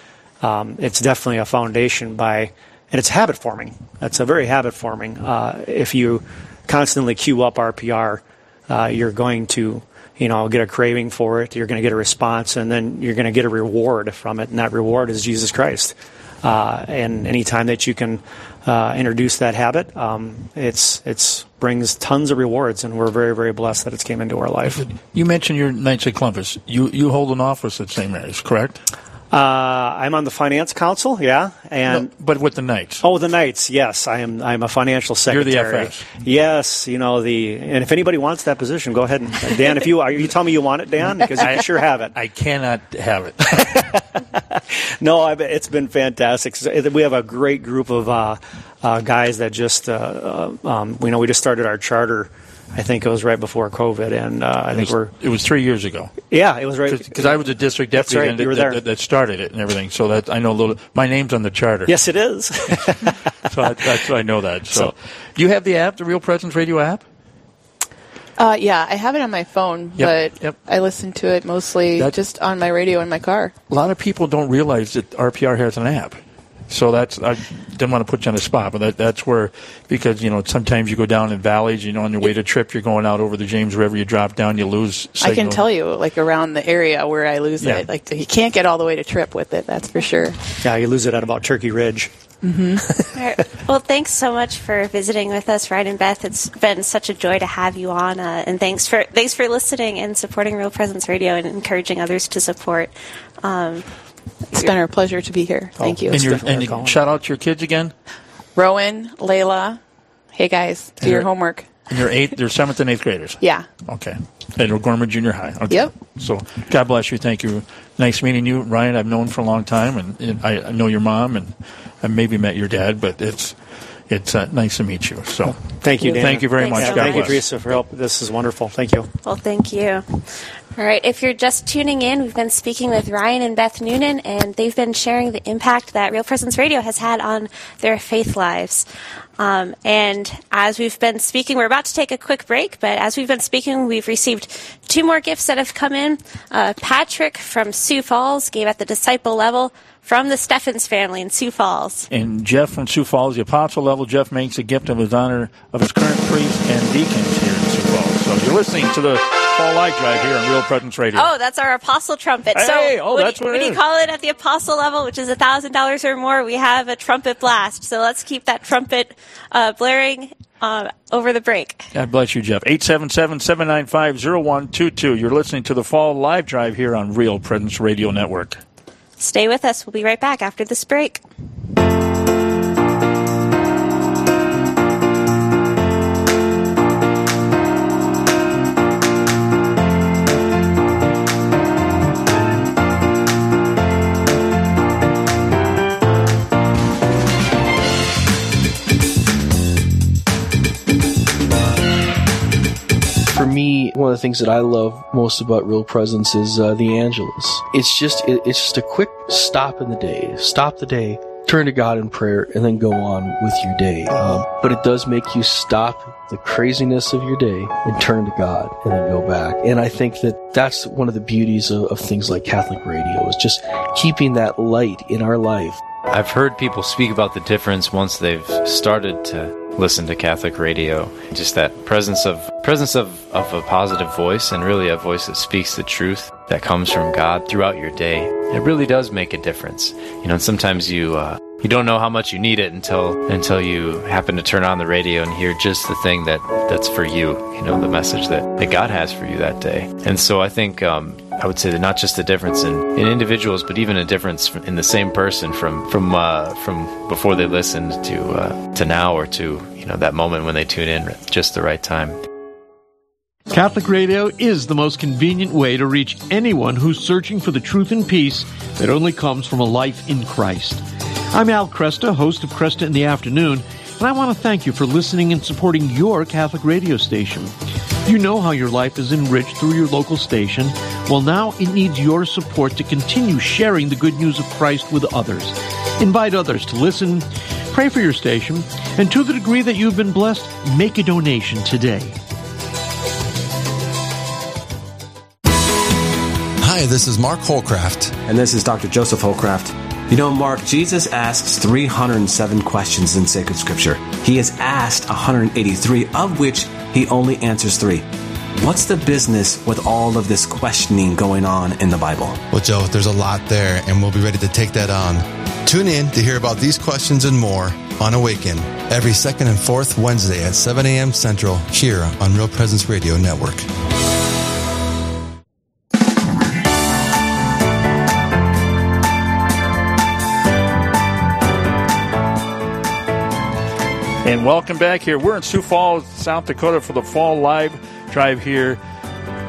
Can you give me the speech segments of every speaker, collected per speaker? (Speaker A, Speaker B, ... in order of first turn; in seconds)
Speaker A: 0.4-24.9, 29.3-32.1, 33.0-42.1, 43.6-55.1, 56.3-57.4, 58.0-58.8, 61.9-63.8, 90.6-92.1, 92.8-93.1, 105.8-107.0, 125.5-129.1
Speaker B: 24.8-28.8, 31.9-33.0, 35.3-36.0, 41.4-43.9, 54.7-56.1, 56.9-61.9, 63.5-67.0, 70.0-70.6, 73.7-76.2, 76.7-85.6, 106.1-107.9, 111.0-111.3, 111.9-123.6, 124.1-125.6, 126.1-127.5, 152.1-161.3, 162.6-163.8, 171.9-178.6, 334.2-338.8
Speaker C: 68.4-73.5, 85.2-90.4, 92.4-92.8, 104.5-106.4, 108.6-109.8, 110.3-111.7, 113.4-113.7
Speaker D: 93.1-103.8, 126.0-127.4, 129.2-130.0, 130.8-138.9, 139.4-152.1, 161.2-171.9, 179.2-181.2
Speaker E: 203.3-225.8
Speaker F: 226.1-262.2
Speaker G: 263.5-277.6, 278.1-292.2
Speaker H: 296.6-298.2, 312.5-323.7
Speaker I: 298.3-308.1, 308.6-312.4